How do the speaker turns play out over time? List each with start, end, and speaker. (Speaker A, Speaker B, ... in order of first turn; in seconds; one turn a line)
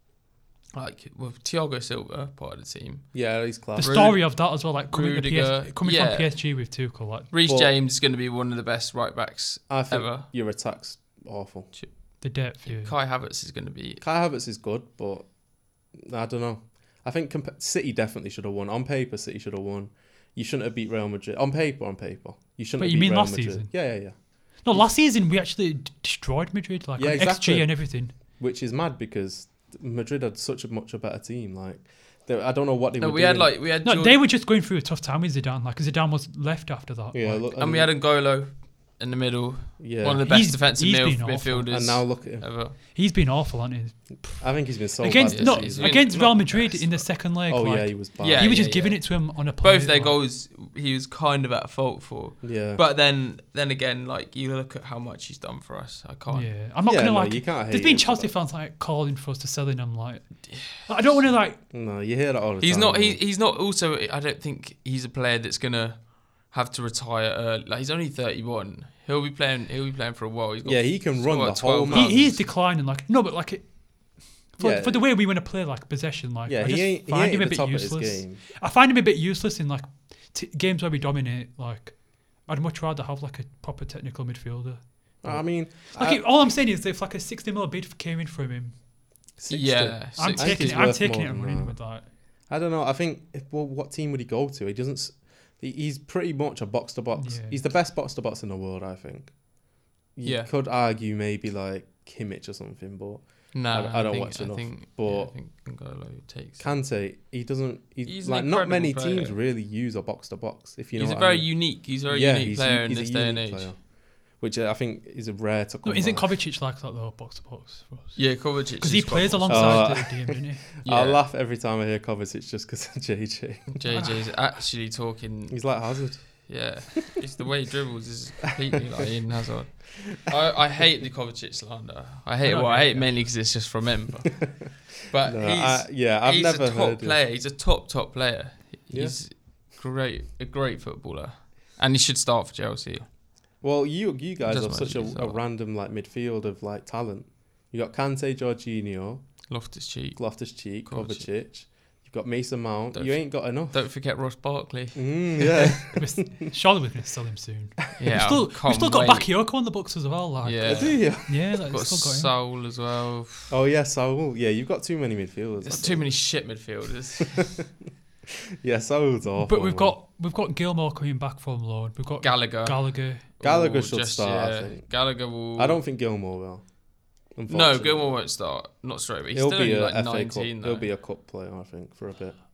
Speaker A: 0.7-6.6
Speaker B: 3.1-4.2
Speaker C: 3.8-7.3
Speaker A: 7.3-10.3
Speaker B: 7.4-7.7
Speaker B: 9.7-11.7
Speaker A: 11.7-14.0
Speaker C: 12.2-12.9
Speaker B: 14.0-15.3
Speaker B: 15.9-24.2
Speaker C: 22.8-23.9
Speaker C: 24.6-28.1
Speaker B: 27.0-33.5
Speaker A: 33.0-34.2
Speaker C: 33.8-37.5
Speaker B: 37.1-37.9
Speaker A: 37.6-42.8
Speaker B: 39.8-40.3
Speaker C: 40.3-41.8
Speaker B: 41.7-42.5
Speaker C: 42.8-50.2
Speaker B: 44.4-48.7
Speaker A: 45.1-47.0
Speaker A: 48.2-56.5
Speaker B: 52.4-52.8
Speaker C: 56.3-61.6
Speaker B: 56.9-58.3
Speaker B: 61.7-63.2
Speaker A: 62.6-72.2
Speaker B: 70.7-72.5
Speaker C: 71.9-88.8
Speaker B: 74.6-75.0
Speaker B: 76.5-78.4
Speaker B: 85.2-86.2
Speaker B: 89.4-91.8
Speaker A: 89.5-90.9
Speaker C: 90.2-92.1
Speaker B: 92.5-99.3
Speaker C: 97.2-97.6
Speaker B: 100.2-105.3
Speaker A: 100.2-100.5
Speaker A: 103.5-106.8
Speaker B: 106.6-116.3
Speaker A: 108.0-109.4
Speaker A: 111.0-113.7
Speaker C: 115.8-120.7
Speaker A: 118.2-120.0
Speaker B: 119.5-123.8
Speaker A: 120.8-121.2
Speaker A: 123.7-143.1
Speaker C: 123.9-124.3
Speaker B: 125.5-126.5
Speaker C: 132.4-133.2
Speaker B: 135.2-137.2
Speaker B: 138.9-139.2
Speaker B: 143.6-149.3
Speaker A: 144.4-145.4
Speaker A: 149.5-150.2
Speaker B: 150.2-153.8
Speaker A: 150.8-151.3
Speaker A: 152.9-155.7
Speaker B: 154.9-156.5
Speaker C: 155.9-162.3
Speaker A: 158.0-159.3
Speaker A: 160.4-163.6
Speaker B: 160.7-161.6
Speaker B: 163.5-166.1
Speaker A: 165.7-167.5
Speaker B: 167.4-167.6
Speaker B: 168.6-169.9
Speaker C: 169.4-173.3
Speaker A: 172.2-175.8
Speaker B: 173.4-176.7
Speaker B: 177.3-178.2
Speaker A: 177.5-180.9
Speaker B: 179.3-182.4